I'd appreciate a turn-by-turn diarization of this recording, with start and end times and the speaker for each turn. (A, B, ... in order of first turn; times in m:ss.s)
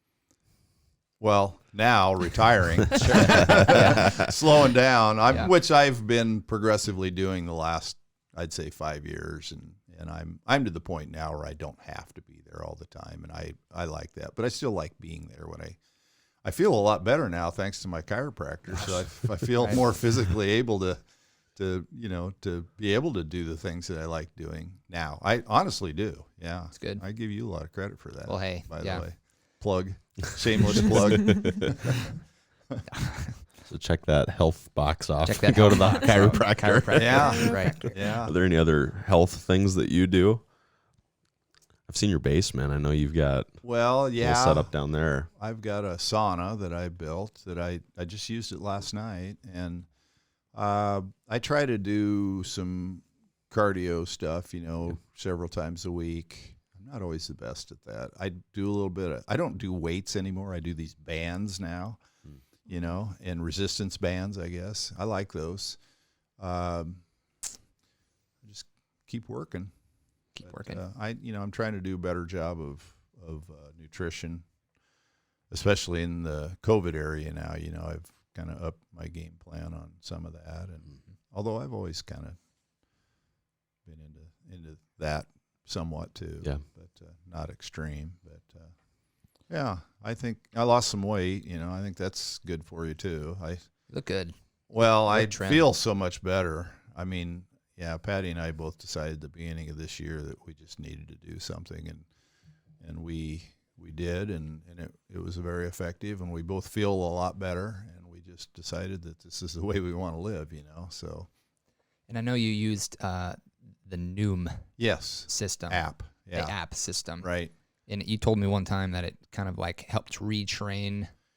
0:01.2-0:15.8 A
0:03.0-0:04.0 B
0:16.4-0:21.0 A
0:21.6-0:32.0 A
0:26.8-0:27.0 B
0:28.3-0:29.1 B
0:32.9-0:33.4 B
0:33.7-0:40.5 C
0:35.2-0:38.0 B
0:36.9-0:38.4 A
0:41.9-0:45.3 C
0:43.6-0:49.9 A
0:50.5-1:02.0 A
1:02.6-1:05.8 A
1:06.4-1:07.0 A
1:08.4-1:09.7 A
1:10.4-1:10.8 B
1:10.4-1:14.5 A
1:15.5-1:22.4 A
1:23.8-1:28.7 A
1:29.5-1:33.6 A
1:33.9-1:34.4 B
1:34.7-1:42.1 A
1:35.0-1:35.7 B
1:42.8-1:51.3 A
1:52.1-1:54.7 B
1:54.8-1:57.5 A
1:55.2-1:57.3 B
1:57.9-2:01.1 B